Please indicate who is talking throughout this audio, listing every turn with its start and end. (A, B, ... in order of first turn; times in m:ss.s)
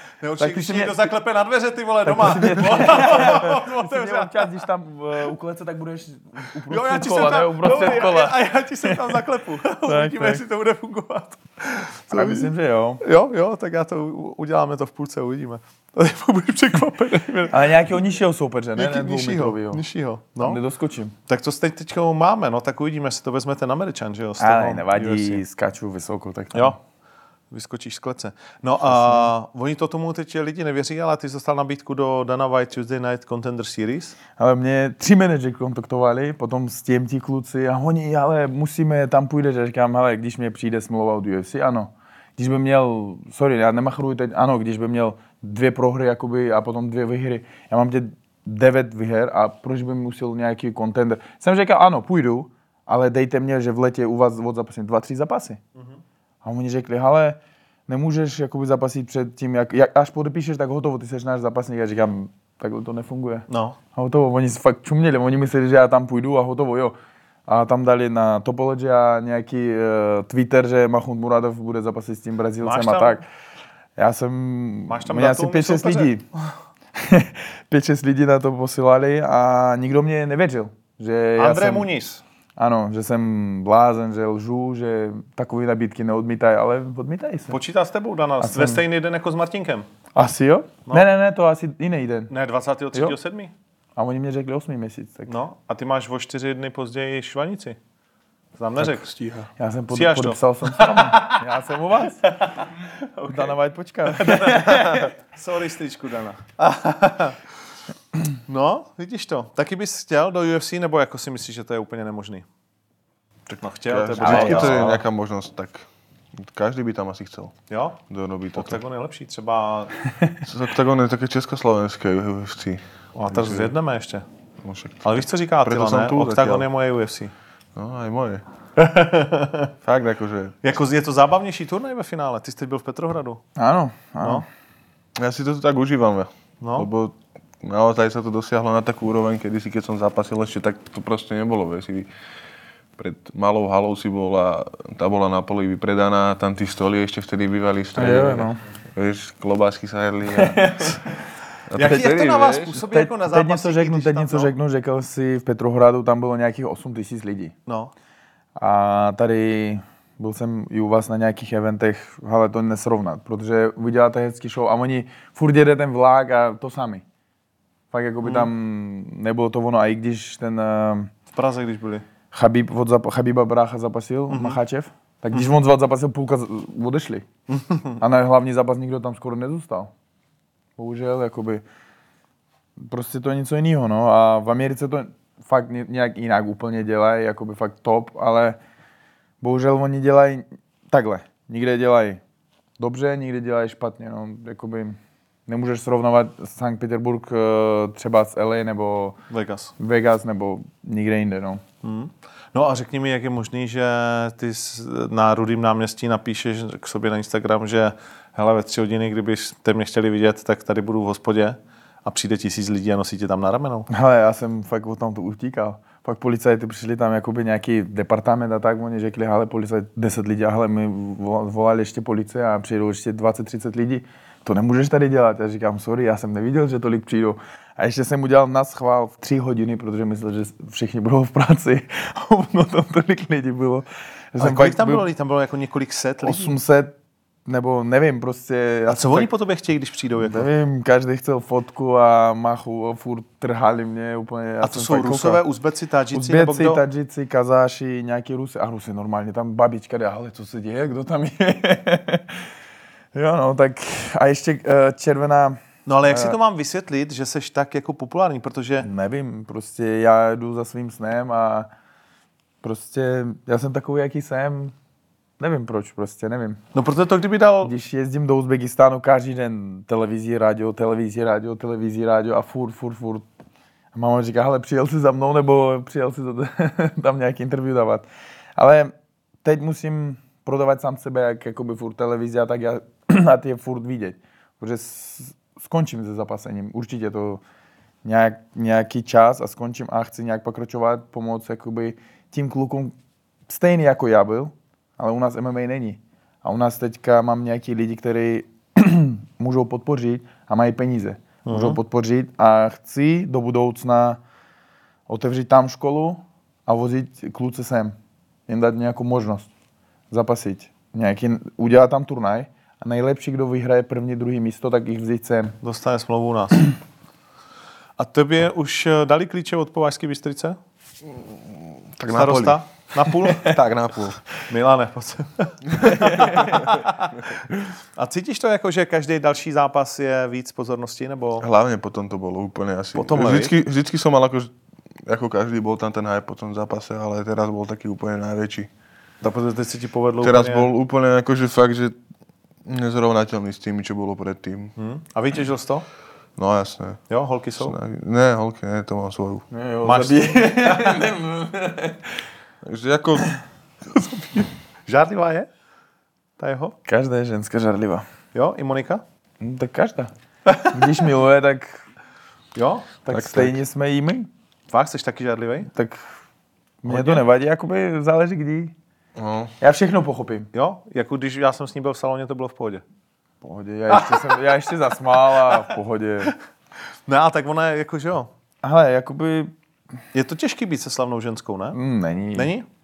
0:00.2-0:04.6 A
0:00.4-0:01.1 B
0:02.1-0:09.2 B
0:06.7-0:17.8 A
0:09.8-0:10.4 B
0:12.1-0:13.0 B
0:17.5-0:19.8 B
0:18.8-0:20.6 A
0:20.4-0:21.1 B
0:21.3-0:25.4 A
0:24.4-0:26.8 B
0:27.5-0:34.2 A
0:28.9-0:29.3 B
0:34.4-0:55.6 B
0:56.4-1:07.0 B
1:03.5-1:03.8 A
1:07.5-1:13.2 B
1:12.6-1:13.2 A
1:14.0-1:16.3 B
1:14.9-1:16.1 A
1:17.0-1:21.9 B
1:21.4-1:22.2 A
1:22.6-1:27.6 B
1:27.5-1:29.9 A
1:28.4-1:28.8 B
1:30.2-1:32.3 B
1:32.3-1:33.5 A
1:34.0-1:35.3 B
1:35.3-1:37.8 A
1:38.6-1:39.1 A
1:38.8-1:39.5 C
1:39.6-1:42.3 B
1:39.9-1:41.4 A
1:42.2-1:43.6 A
1:43.3-1:45.1 B
1:44.1-1:47.4 A
1:48.5-1:52.4 A
1:53.5-1:57.6 C
1:53.6-1:55.0 A
1:54.2-1:54.7 B
1:57.7-1:58.0 A
1:58.1-1:58.8 C
1:58.5-2:00.0 A
2:00.4-2:03.7 C
2:03.2-2:04.2 A
2:04.6-2:06.7 C
2:05.0-2:07.3 A
2:07.8-2:08.4 C
2:08.8-2:09.7 A
2:09.8-2:10.6 C
2:10.6-2:13.4 A
2:13.6-2:14.4 B
2:15.2-2:22.1 C
2:16.6-2:16.9 A
2:23.0-2:31.0 C
2:28.0-2:28.6 B
2:30.4-2:31.0 B
2:31.7-2:32.8 C
2:31.7-2:34.5 A
2:31.8-2:32.1 B
2:32.7-2:37.5 B
2:37.7-2:37.9 A
2:38.6-2:47.0 B
2:47.9-2:51.1 B
2:48.2-2:48.5 A
2:51.3-2:52.0 A
2:52.3-2:57.3 B
2:54.3-2:54.6 A
2:57.5-2:58.0 A
2:58.0-2:59.9 B
3:00.8-3:01.6 B
3:02.8-3:08.6 B
3:09.4-3:12.2 B
3:12.8-3:19.2 B
3:19.3-3:19.7 A
3:19.8-3:21.6 B
3:21.8-3:33.9 A
3:33.9-3:55.1 B
3:54.4-3:56.6 A
3:56.2-3:56.9 B
3:57.5-3:59.3 B
3:58.9-4:00.5 A
4:00.2-4:05.4 B
4:04.6-4:06.8 A
4:06.1-4:12.4 B
4:13.1-4:16.4 B
4:15.9-4:18.9 A
4:18.8-4:21.7 B
4:22.6-4:24.7 B
4:25.4-4:26.6 B
4:26.7-4:27.7 A
4:27.6-4:33.2 B
4:33.9-4:38.1 B
4:38.6-4:38.9 B
4:39.4-4:47.4 B
4:48.0-4:52.9 B
4:53.5-5:04.2 B
5:01.5-5:01.8 A
5:05.1-5:08.0 B
5:08.5-5:09.5 B
5:10.1-5:15.6 B
5:15.6-5:16.7 A
5:18.0-5:20.6 A
5:21.0-5:22.6 C
5:22.1-5:23.6 A
5:23.3-5:24.2 C
5:24.5-5:27.3 A
5:25.9-5:26.8 C
5:28.0-5:31.5 A
5:31.4-5:38.7 C
5:33.0-5:33.6 A
5:39.2-5:40.7 A
5:40.2-5:42.0 C
5:42.6-5:44.7 C
5:44.8-5:45.9 A
5:46.4-5:47.0 C
5:47.1-5:47.8 A
5:47.6-5:49.5 C
5:49.5-5:52.0 B
5:49.8-5:50.7 A
5:52.6-5:53.3 C
5:54.9-5:55.5 A
5:56.4-5:56.8 A
5:56.9-5:58.0 B
5:58.3-5:59.0 A
5:59.4-6:01.8 B
6:02.6-6:02.9 A
6:03.1-6:04.3 B
6:03.1-6:03.6 C
6:04.7-6:05.7 A
6:05.7-6:06.1 B
6:06.8-6:08.7 B
6:06.9-6:07.2 A
6:09.2-6:09.5 C
6:09.6-6:10.5 B
6:10.5-6:12.8 A
6:13.4-6:16.3 B
6:13.9-6:14.3 A
6:17.1-6:18.3 A
6:18.6-6:19.5 B
6:20.1-6:21.8 A
6:21.7-6:22.5 B
6:22.3-6:22.7 A